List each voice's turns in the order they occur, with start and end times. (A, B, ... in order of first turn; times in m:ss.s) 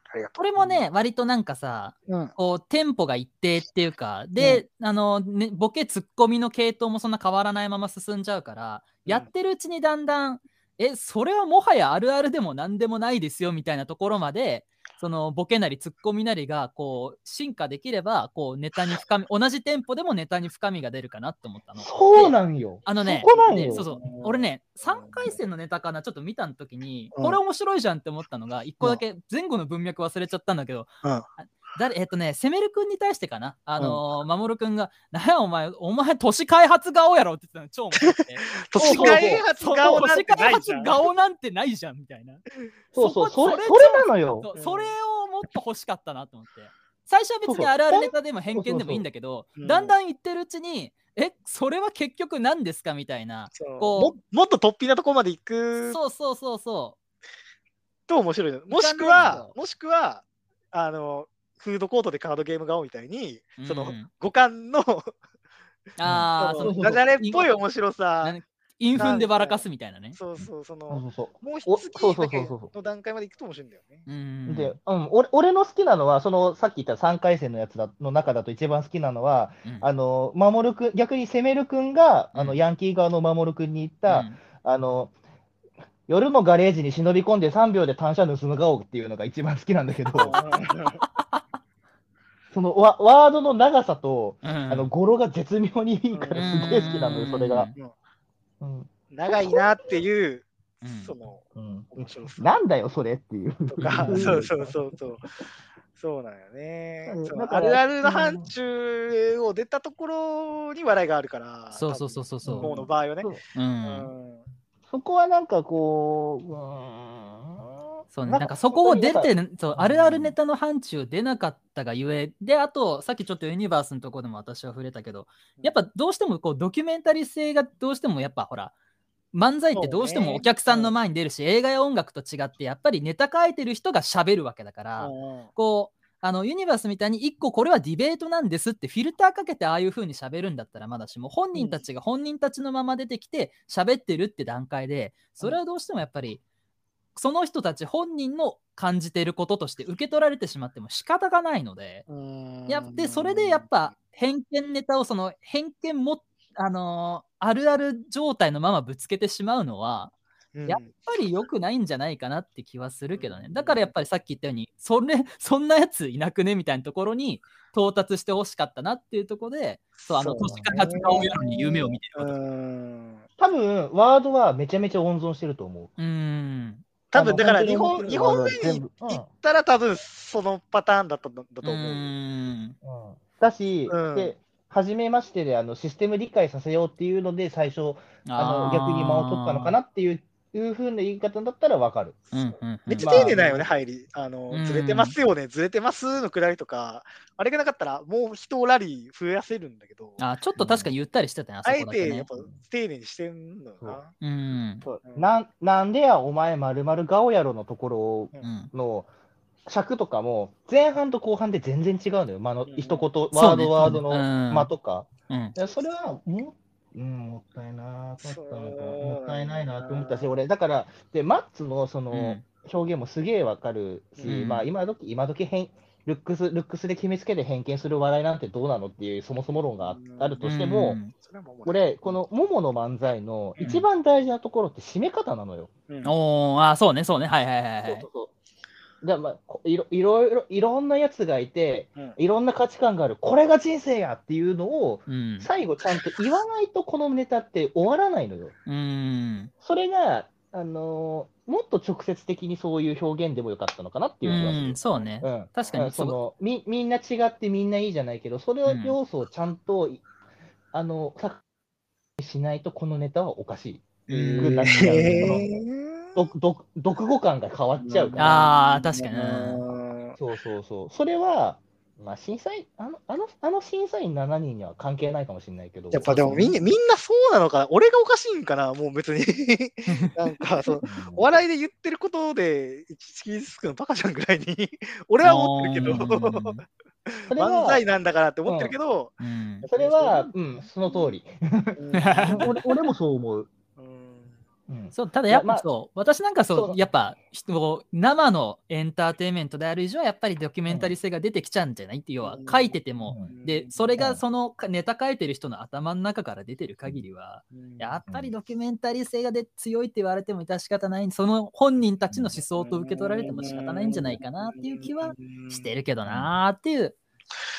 0:00.1-0:00.8 A
0:00.3-0:54.2 B
0:02.1-0:02.3 A
0:21.8-0:23.9 C
0:23.3-0:25.4 A
0:38.0-0:41.0 A
0:38.8-0:39.4 C
0:42.9-0:44.5 C
0:44.5-0:44.9 A
0:47.4-0:49.0 C
0:49.6-0:49.9 A
0:53.5-0:56.0 A
0:55.9-0:57.0 B
0:58.1-1:05.1 A
0:58.7-0:59.5 B
0:59.2-0:59.4 C
1:03.6-1:04.1 B
1:06.0-1:07.5 B
1:06.0-1:07.0 C
1:06.4-1:08.4 A
1:08.2-1:10.2 B
1:08.9-1:14.1 A
1:10.4-1:12.7 C
1:14.0-1:14.8 B
1:14.5-1:25.1 C
1:22.3-1:22.6 B
1:24.1-1:24.4 B
1:26.1-1:30.4 C
1:30.2-1:31.0 A
1:32.5-1:37.7 C
1:34.4-1:34.9 B
1:36.1-1:36.5 A
1:36.4-1:37.7 B
1:38.6-1:39.6 C
1:39.1-1:42.6 A
1:40.8-1:41.1 B
1:41.6-1:44.9 C
1:43.7-1:45.3 A
1:43.8-1:44.4 B
1:46.0-1:54.4 A
1:47.0-1:48.5 C
1:51.7-1:52.8 B
1:52.4-1:53.4 C
1:53.5-1:54.1 B
1:54.9-2:00.4 C
1:58.1-2:08.7 B
2:09.3-2:26.4 B
2:09.7-2:10.9 A
2:15.0-2:15.5 A
2:21.5-2:21.8 A
2:27.2-2:32.0 B
2:32.1-2:33.7 A
2:32.7-2:40.1 B
2:40.5-2:40.9 A
2:40.7-2:52.4 B
2:43.2-2:43.9 A
2:50.0-2:53.2 A
2:50.4-2:52.0 C
2:53.4-2:55.9 C
2:56.0-2:56.8 B
2:57.1-3:02.1 A
2:57.1-2:59.3 C
3:01.6-3:02.8 B
3:02.8-3:12.2 C
3:03.9-3:04.3 A
3:08.2-3:09.8 B
3:12.3-3:13.4 B
3:12.8-3:20.2 A
3:13.0-3:13.6 C
3:14.5-3:15.2 B
3:20.2-3:22.3 B
3:20.6-3:20.9 C
3:21.6-3:24.1 A
3:24.2-3:24.8 B
3:24.8-3:29.1 C
3:25.0-3:25.3 A
3:28.4-3:28.7 B
3:29.6-3:51.0 C
3:32.6-3:33.1 A
3:33.3-3:34.7 B
3:35.3-3:35.5 B
3:38.2-3:40.3 A
3:42.1-3:42.4 B
3:44.2-3:44.7 B
3:49.8-3:50.4 A
3:50.4-3:51.1 B
3:51.1-3:52.2 A
3:51.6-3:55.7 C
3:55.9-3:56.1 A
3:56.0-3:58.1 B
3:57.8-3:58.3 C
3:59.0-4:08.5 C
4:05.1-4:05.5 B
4:08.6-4:09.5 B
4:09.6-4:20.0 C
4:14.2-4:16.2 B
4:15.6-4:15.9 A
4:18.6-4:19.0 B
4:20.7-4:21.4 C
4:22.2-4:25.5 C
4:24.1-4:25.0 B
4:24.1-4:26.3 A
4:26.2-4:28.4 C
4:27.8-4:30.2 A
4:28.2-4:29.6 B
4:30.2-4:36.5 C
4:35.9-4:50.3 A
4:36.1-4:36.5 B
4:39.9-4:40.1 B
4:40.8-4:41.2 C
4:45.2-4:46.6 B
4:47.3-4:47.8 C
4:48.4-4:48.7 C
4:49.2-4:49.6 B
4:49.7-4:53.5 C
4:51.8-4:52.5 A
4:52.0-4:52.5 B
4:53.8-4:54.4 A
4:54.7-4:55.6 C
4:54.9-5:17.0 B
4:56.5-4:56.8 C
5:00.7-5:01.0 C
5:02.2-5:04.0 A
5:04.0-5:04.2 C
5:07.5-5:08.0 A
5:12.1-5:12.4 C
5:12.5-5:15.7 A
5:16.0-5:16.3 C